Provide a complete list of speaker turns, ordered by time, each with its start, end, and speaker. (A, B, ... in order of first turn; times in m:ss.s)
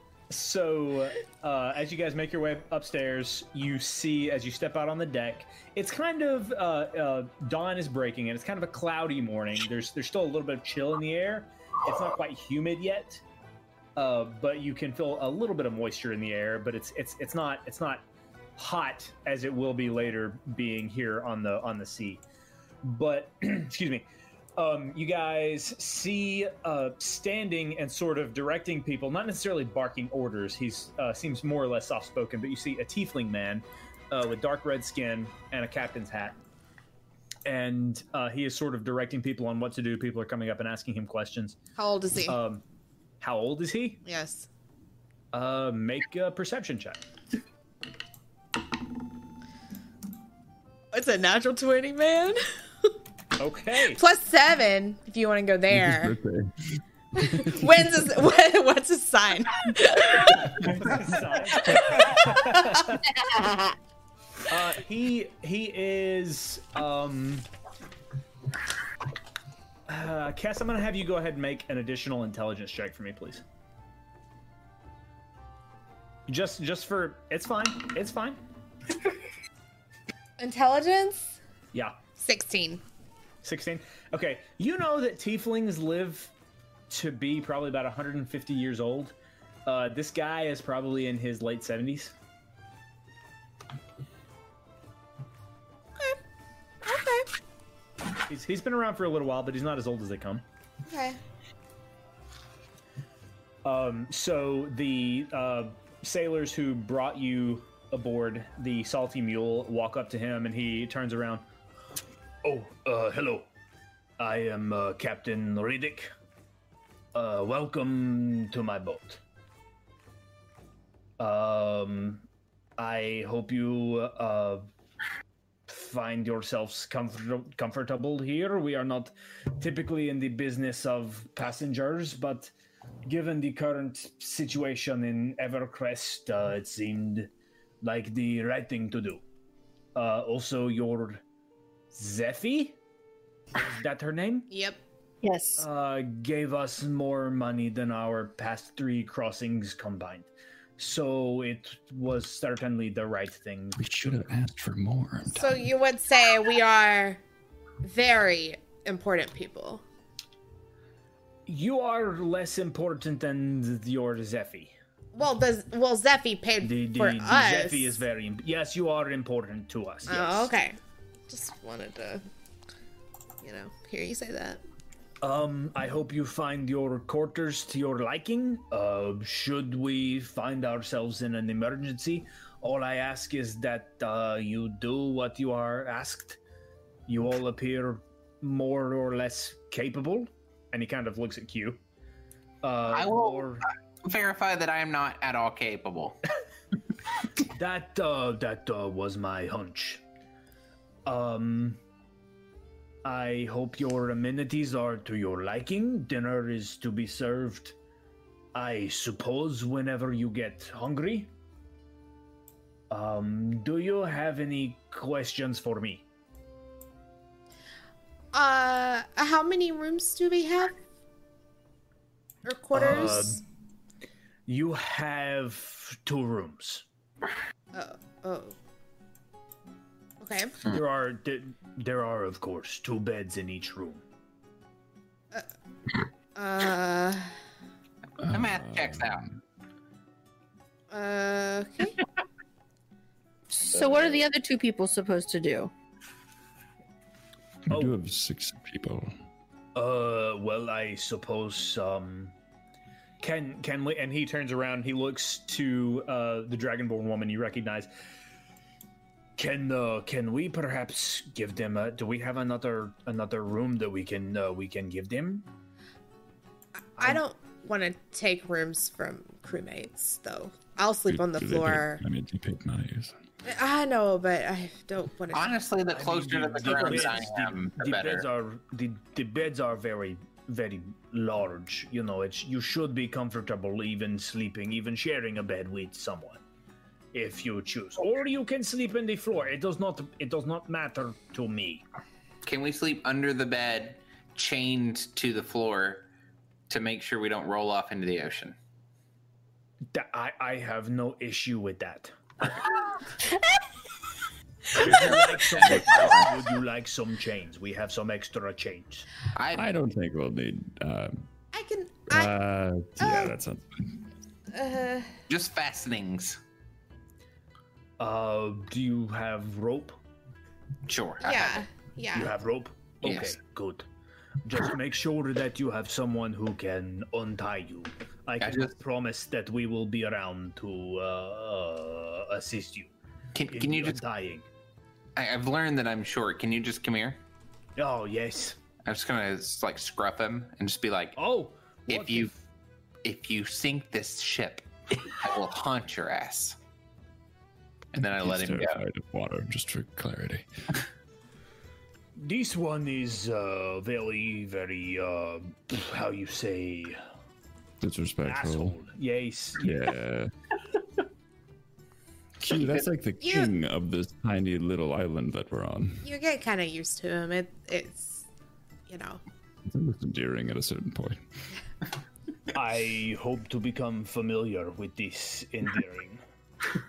0:00.3-0:13.2 A
0:14.0-0:18.0 A
0:18.6-0:22.2 A
0:22.8-0:24.1 A
0:24.6-0:36.4 A
0:37.4-0:41.6 A
0:41.8-0:42.4 B
0:42.3-0:42.6 A
0:43.2-0:44.0 A
0:44.0-0:44.5 B
0:45.3-0:47.0 A
0:50.9-0:52.4 B
0:53.4-0:54.0 A
0:54.0-0:56.2 B
0:55.7-0:56.5 C
0:57.2-1:00.8 B
0:57.3-0:57.9 C
1:00.6-1:03.1 A
1:01.6-1:02.8 B
1:03.1-1:03.8 D
1:04.5-1:07.5 A
1:09.9-1:13.4 A
1:16.3-1:18.4 A
1:20.4-1:21.4 B
1:22.2-1:22.8 B
1:23.4-1:26.3 A
1:26.9-1:29.2 A
1:29.7-1:32.1 A
1:36.8-1:37.3 B
1:38.3-1:40.4 A
1:40.8-1:41.2 B
1:43.6-1:51.4 A
1:52.4-1:53.5 A
1:54.2-1:56.1 A
1:57.1-1:59.2 A
2:01.2-2:02.2 A
2:02.8-2:04.7 A
2:05.7-2:12.5 A
2:13.1-2:17.3 A
2:17.8-2:19.2 A
2:20.0-2:21.2 A
2:22.0-2:22.8 A
2:23.6-2:24.5 A
2:24.5-2:24.8 B
2:25.2-2:25.7 D
2:25.6-2:34.2 A
2:33.8-2:35.6 C
2:35.3-2:37.2 B
2:37.8-2:39.8 B
2:41.5-2:44.7 A
2:45.2-2:48.0 B
2:46.6-2:50.5 A
2:50.1-2:50.8 B
2:51.3-2:52.2 B
2:53.4-2:54.6 B
2:55.2-3:06.4 A
3:07.1-3:11.8 A
3:12.6-3:13.6 A
3:12.9-3:16.2 E
3:17.5-3:20.0 A
3:21.1-3:21.8 A
3:23.0-3:27.8 A
3:28.5-3:31.3 A
3:32.9-3:36.0 A
3:38.3-3:40.8 B
3:42.4-3:43.4 B
3:42.7-3:43.4 A
3:44.5-3:46.8 A
3:47.7-3:48.6 B
3:50.2-3:50.6 B
3:50.6-3:54.0 A
3:56.4-3:57.3 B
3:58.2-3:59.3 E
3:58.2-3:59.2 C
4:00.9-4:02.0 B
4:03.5-4:05.7 D
4:07.7-4:09.1 C
4:07.7-4:07.9 A
4:09.8-4:12.3 A
4:13.2-4:17.9 A
4:19.4-4:25.5 A
4:27.0-4:32.0 B
4:31.1-4:33.1 C
4:33.4-4:35.5 B
4:35.3-4:38.3 E
4:35.9-4:46.4 A
4:47.1-4:51.8 A
4:52.4-4:56.1 E
4:56.7-4:58.6 E
4:59.9-5:02.1 A
5:04.7-5:09.1 A
5:04.8-5:06.3 E
5:09.4-5:09.7 E
5:09.5-5:11.2 C
5:11.5-5:12.3 B
5:12.1-5:14.0 C
5:13.0-5:13.4 B
5:14.5-5:15.2 B
5:15.3-5:16.4 E
5:18.0-5:20.0 A
5:20.9-5:21.7 E
5:21.2-5:22.3 B
5:22.1-5:23.9 A
5:23.0-5:23.3 E
5:24.4-5:32.9 A
5:28.4-5:28.7 E
5:33.4-5:34.0 E
5:33.5-5:34.5 A
5:35.2-5:37.2 E
5:37.8-5:38.6 A
5:38.8-5:41.2 E
5:41.2-5:42.4 A
5:41.9-5:42.3 E
5:43.0-5:46.6 E
5:47.9-5:48.8 E
5:48.0-5:50.5 C
5:52.2-5:57.0 A
5:57.8-5:58.8 C
5:58.2-6:00.0 A
5:59.6-6:00.3 C
6:02.4-6:06.0 C
6:03.2-6:03.5 B
6:06.0-6:08.3 B
6:08.9-6:09.2 B
6:09.7-6:11.2 C
6:12.5-6:16.2 A